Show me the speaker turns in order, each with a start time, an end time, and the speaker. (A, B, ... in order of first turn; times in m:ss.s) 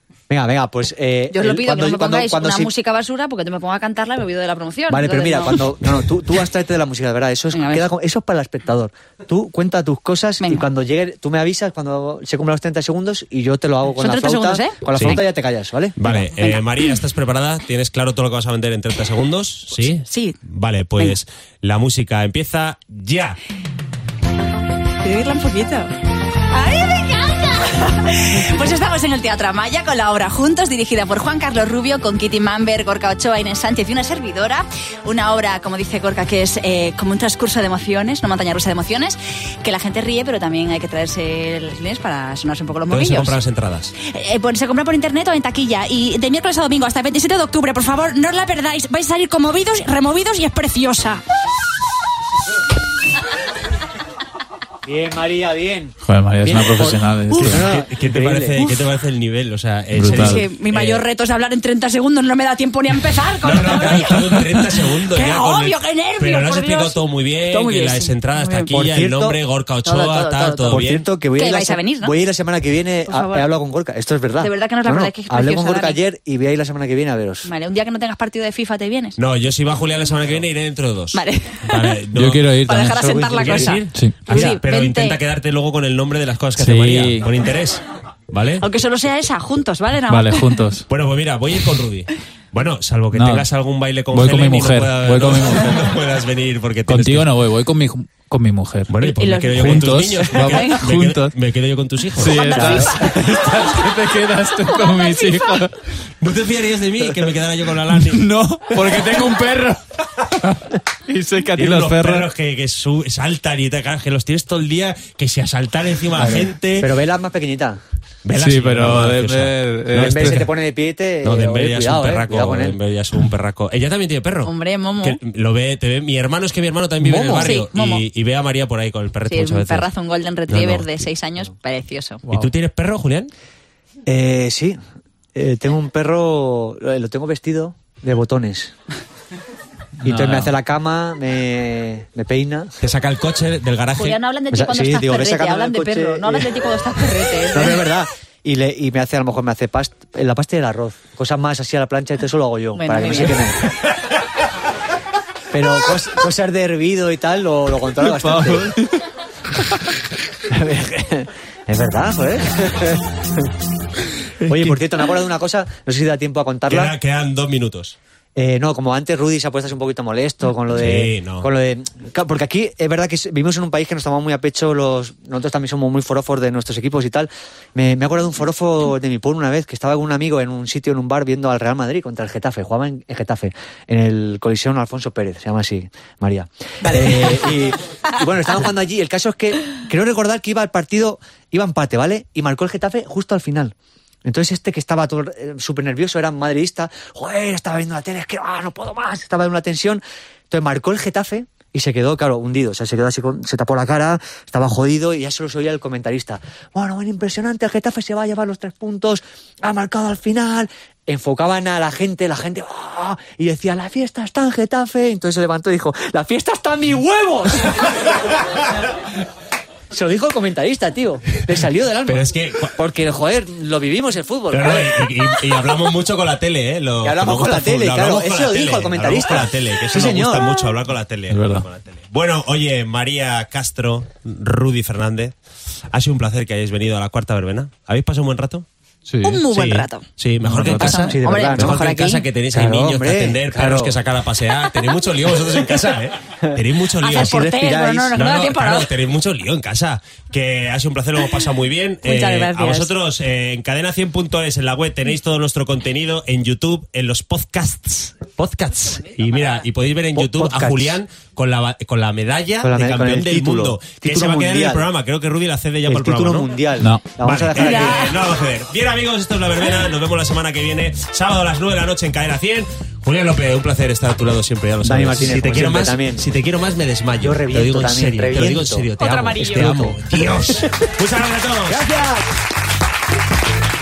0:00.3-0:02.7 A
0:01.3-0:05.7 B
0:04.9-0:16.2 A
0:07.5-0:07.8 B
0:10.4-0:10.6 B
0:14.0-0:15.2 B
0:14.9-0:15.2 C
0:16.0-0:23.4 C
0:19.9-0:20.4 B
0:25.0-0:25.9 B
0:26.5-0:43.4 B
0:42.9-0:43.9 C
0:44.0-0:51.2 B
0:54.8-0:58.7 A
0:56.0-0:57.7 D
0:57.3-1:01.0 C
0:59.9-1:00.4 D
1:00.0-1:08.7 B
1:03.4-1:11.0 C
1:08.7-1:09.4 A
1:09.8-1:10.8 B
1:10.7-1:17.5 A
1:11.4-1:12.1 B
1:13.1-1:13.5 B
1:14.4-1:16.0 B
1:17.4-1:19.2 B
1:19.2-1:22.5 C
1:21.1-1:22.0 B
1:22.1-1:23.1 D
1:22.6-1:25.2 B
1:23.0-1:23.7 A
1:23.3-1:28.6 C
1:23.9-1:24.2 D
1:24.3-1:24.6 A
1:26.6-1:27.3 D
1:28.6-1:30.6 B
1:30.1-1:30.8 D
1:30.9-1:37.3 C
1:33.1-1:33.5 D
1:34.1-1:35.9 D
1:36.9-1:39.0 D
1:38.9-1:42.9 C
1:39.0-1:40.8 B
1:39.5-1:41.3 D
1:42.2-1:45.7 D
1:42.2-1:43.7 B
1:42.6-1:42.9 A
1:44.6-1:45.6 B
1:46.2-1:49.0 C
1:48.0-1:52.3 D
1:51.6-1:56.9 C
1:56.2-1:57.8 A
1:58.2-1:59.5 C
1:58.3-2:00.5 D
1:59.9-2:02.8 A
2:01.2-2:09.9 C
2:04.4-2:05.2 B
2:07.0-2:07.6 A
2:07.3-2:08.0 B
2:09.3-2:12.2 B
2:10.5-2:11.1 C
2:12.3-2:12.5 D
2:12.3-2:13.3 C
2:14.0-2:14.8 A
2:15.3-2:18.7 A
2:20.0-2:20.5 D
2:20.0-2:22.7 A
2:22.8-2:24.2 C
2:24.0-2:27.9 B
2:24.5-2:26.6 A
2:27.5-2:33.6 A
2:32.8-2:33.5 B
2:35.5-2:38.8 A
2:38.0-2:39.0 D
2:39.6-2:39.8 D
2:40.5-2:43.5 A
2:44.4-2:44.8 D
2:44.4-2:46.9 A
2:46.7-2:48.0 C
2:48.4-3:38.2 A
2:50.7-2:51.5 C
3:39.9-3:45.1 A
3:42.1-3:42.7 C
3:44.5-3:55.4 C
3:47.0-3:50.5 A
3:51.3-3:51.6 D
3:55.9-3:58.7 C
3:59.0-3:59.4 D
3:59.2-4:00.0 B
3:59.5-4:07.4 C
4:00.4-4:01.8 A
4:00.6-4:02.2 B
4:02.5-4:04.0 A
4:07.0-4:08.9 B
4:07.1-4:08.2 A
4:08.1-4:26.6 C
4:12.0-4:12.9 B
4:19.1-4:19.6 B
4:20.1-4:21.0 A
4:22.6-4:24.8 A
4:25.8-4:28.0 A
4:27.2-4:41.9 C
4:27.6-4:28.2 B
4:34.8-4:36.2 A
4:37.2-4:40.7 A
4:39.0-4:39.7 B
4:41.8-4:42.2 A